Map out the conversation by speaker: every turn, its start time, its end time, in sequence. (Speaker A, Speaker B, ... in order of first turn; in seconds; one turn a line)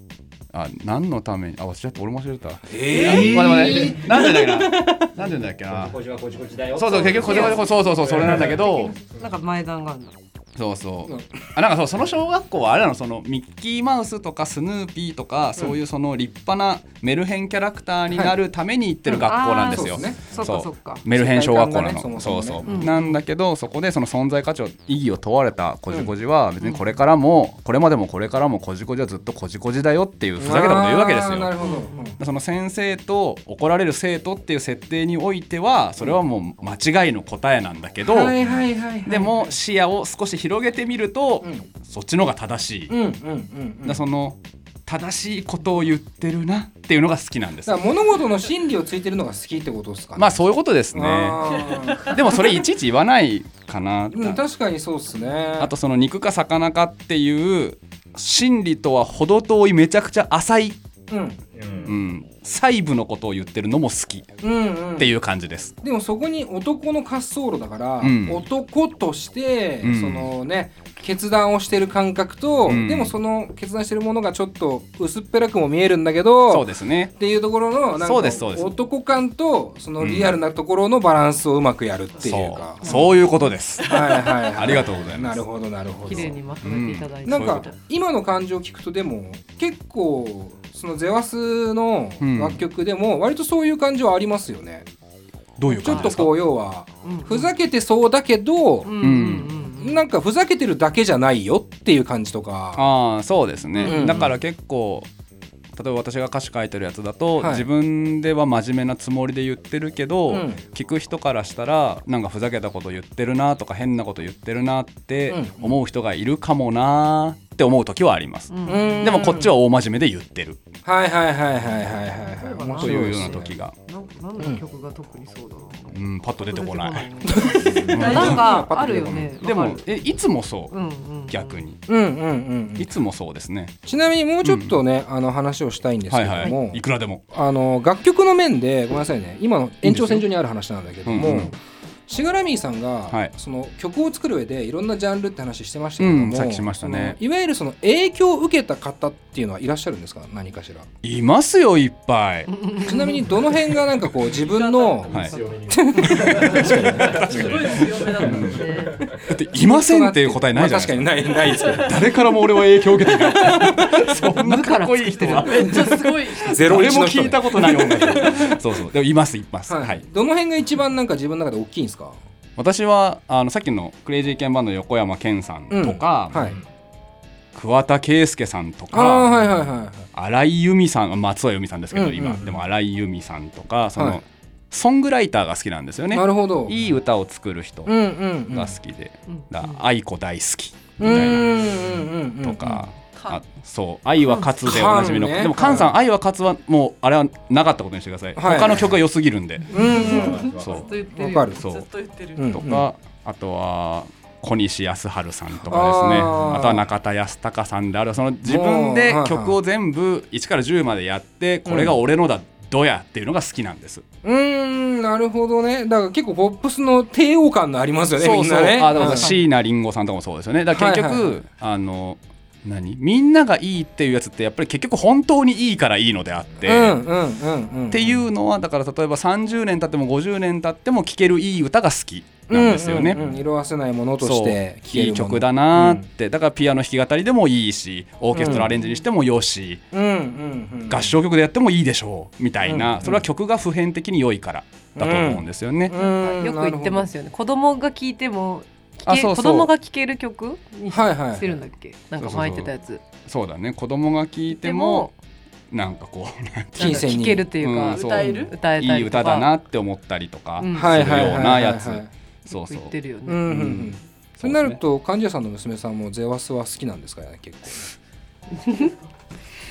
Speaker A: 0.5-6.0
Speaker B: 2.7-5.0
Speaker C: 2.9-4.2
Speaker C: 5.6-9.3
Speaker A: 6.7-8.9
Speaker D: 7.1-7.6
Speaker D: 9.1-10.1
Speaker A: 10.6-31.5
Speaker B: 11.0-11.3
Speaker B: 18.1-18.4
Speaker B: 19.1-20.3
Speaker D: 19.1-21.0
Speaker B: 21.1-22.9
Speaker D: 22.6-23.2
Speaker D: 26.6-26.9
Speaker B: 30.4-32.2
Speaker D: 31.6-32.2
Speaker A: 32.2-38.4
Speaker B: 38.0-39.3
Speaker A: 39.0-42.9
Speaker B: 41.4-41.7
Speaker B: 42.9-44.0
Speaker A: 43.8-47.8
Speaker B: 47.6-50.3
Speaker A: 50.1-54.4
Speaker B: 50.9-52.1
Speaker B: 54.1-55.7
Speaker A: 55.6-60.8
Speaker B: 61.1-61.4
Speaker C: 61.5-62.0
Speaker A: 61.8-64.3
Speaker B: 64.4-65.1
Speaker A: 65.0-65.7
Speaker B: 65.8-83.2
Speaker A: 68.0-68.4
Speaker A: 69.8-70.3
Speaker A: 72.7-73.1
Speaker A: 76.5-77.1
Speaker A: 78.0-78.8
Speaker A: 80.0-80.3
Speaker A: 82.2-84.0
Speaker D: 82.8-83.1
Speaker B: 83.8-86.4
Speaker A: 84.5-85.4
Speaker D: 86.0-87.8
Speaker A: 86.1-87.7
Speaker B: 87.2-94.9
Speaker A: 92.2-92.6
Speaker A: 95.6-96.4
Speaker D: 95.7-96.1
Speaker B: 95.8-99.0
Speaker D: 97.0-97.5
Speaker D: 98.8-100.0
Speaker A: 99.0-99.6
Speaker B: 99.7-102.9
Speaker A: 102.8-105.1
Speaker D: 103.7-104.1
Speaker B: 103.8-104.3
Speaker A: 105.8-120.6
Speaker B: 107.4-107.6
Speaker B: 110.3-110.6
Speaker B: 115.3-115.8
Speaker D: 118.5-119.3
Speaker B: 118.7-119.5
Speaker B: 120.8-123.5
Speaker D: 122.2-126.0
Speaker A: 122.8-123.7
Speaker A: 125.9-127.1
Speaker D: 126.5-129.9
Speaker B: 127.3-129.3
Speaker A: 127.7-130.7
Speaker D: 130.7-131.6
Speaker A: 131.3-131.8
Speaker B: 131.9-133.0
Speaker A: 132.8-133.7
Speaker B: 133.9-141.6
Speaker A: 134.4-134.8
Speaker A: 136.1-137.2
Speaker A: 139.8-140.2
Speaker A: 141.1-141.5
Speaker B: 142.1-150.9
Speaker A: 146.0-147.2
Speaker A: 151.0-152.5
Speaker D: 152.5-153.2
Speaker B: 152.8-157.7
Speaker E: 154.4-155.4
Speaker A: 155.1-155.4
Speaker C: 155.1-159.2
Speaker A: 156.1-158.7
Speaker E: 157.1-158.9
Speaker D: 158.5-159.0
Speaker A: 159.3-170.0
Speaker B: 159.5-162.0
Speaker B: 163.1-164.1
Speaker D: 164.1-166.0
Speaker E: 165.2-166.7
Speaker B: 166.4-168.6
Speaker B: 169.7-172.2
Speaker A: 172.6-176.5
Speaker B: 175.7-176.6
Speaker C: 176.4-176.6
Speaker A: 177.5-179.4
Speaker B: 178.9-180.1
Speaker A: 180.1-187.9
Speaker B: 181.9-182.4
Speaker B: 184.0-184.2
Speaker B: 186.1-186.7
Speaker B: 187.9-188.8
Speaker A: 188.5-191.6
Speaker D: 189.3-189.8
Speaker B: 191.0-192.8
Speaker A: 192.4-199.8
Speaker E: 193.1-193.4
Speaker B: 194.6-195.9
Speaker B: 198.4-199.0
Speaker B: 199.7-200.5
Speaker D: 199.7-201.5
Speaker C: 199.8-200.9
Speaker B: 201.1-201.6
Speaker E: 201.5-202.6
Speaker A: 201.6-201.9
Speaker B: 202.4-202.9
Speaker A: 202.5-214.0
Speaker B: 205.6-206.8
Speaker B: 208.4-209.6
Speaker B: 211.7-212.0
Speaker B: 214.2-219.3
Speaker A: 218.2-227.0
Speaker D: 218.9-219.4
Speaker B: 220.7-221.4
Speaker B: 226.6-228.2
Speaker A: 227.9-233.2
Speaker B: 232.5-236.1
Speaker A: 234.2-239.8
Speaker B: 238.3-238.7
Speaker D: 238.4-239.0
Speaker B: 239.9-241.1
Speaker A: 240.9-245.9
Speaker B: 242.6-243.2
Speaker B: 245.0-247.1
Speaker D: 245.9-253.0
Speaker A: 249.1-249.7
Speaker B: 250.9-251.6
Speaker A: 252.2-252.7
Speaker A: 253.2-255.1
Speaker D: 254.5-255.1
Speaker A: 255.7-262.9
Speaker D: 256.8-259.5
Speaker B: 256.8-257.5
Speaker E: 257.9-258.5
Speaker D: 260.6-261.5
Speaker B: 260.7-262.1
Speaker D: 262.5-263.5
Speaker B: 263.3-267.9
Speaker A: 263.5-264.8
Speaker D: 268.6-268.9